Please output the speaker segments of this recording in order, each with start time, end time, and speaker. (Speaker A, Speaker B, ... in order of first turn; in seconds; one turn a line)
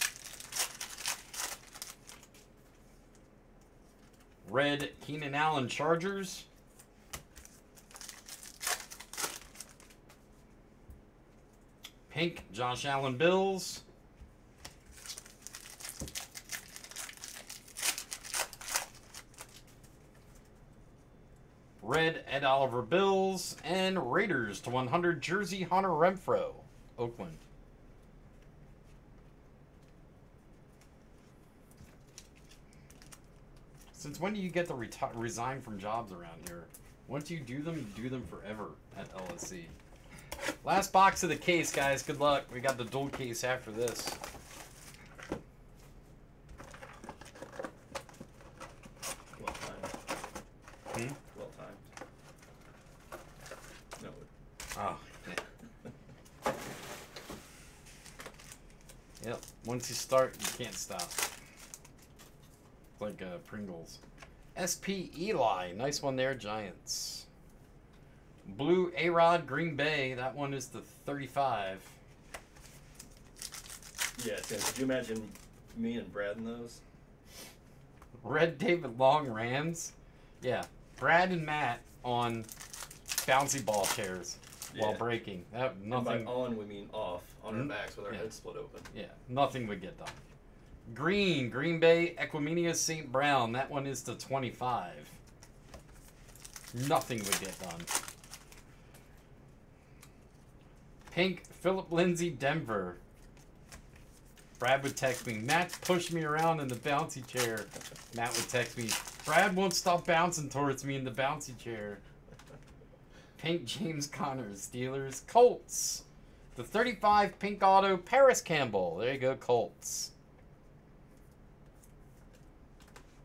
Speaker A: 4.4-6.5
Speaker A: 12.1-13.8
Speaker A: 21.8-27.4
Speaker A: 33.9-39.7
Speaker A: 40.6-44.2
Speaker B: 49.4-49.9
Speaker A: 50.9-51.2
Speaker B: 51.3-51.9
Speaker B: 54.0-54.3
Speaker A: 54.8-55.4
Speaker A: 59.2-61.3
Speaker A: 63.0-64.0
Speaker A: 64.5-67.3
Speaker A: 68.4-72.0
Speaker B: 74.2-76.8
Speaker A: 78.2-82.5
Speaker A: 83.2-86.5
Speaker B: 84.7-85.1
Speaker B: 85.9-88.9
Speaker A: 87.5-88.3
Speaker A: 88.9-90.2
Speaker A: 90.9-95.2
Speaker A: 96.7-97.9
Speaker A: 101.1-103.0
Speaker A: 104.6-112.0
Speaker A: 113.4-120.1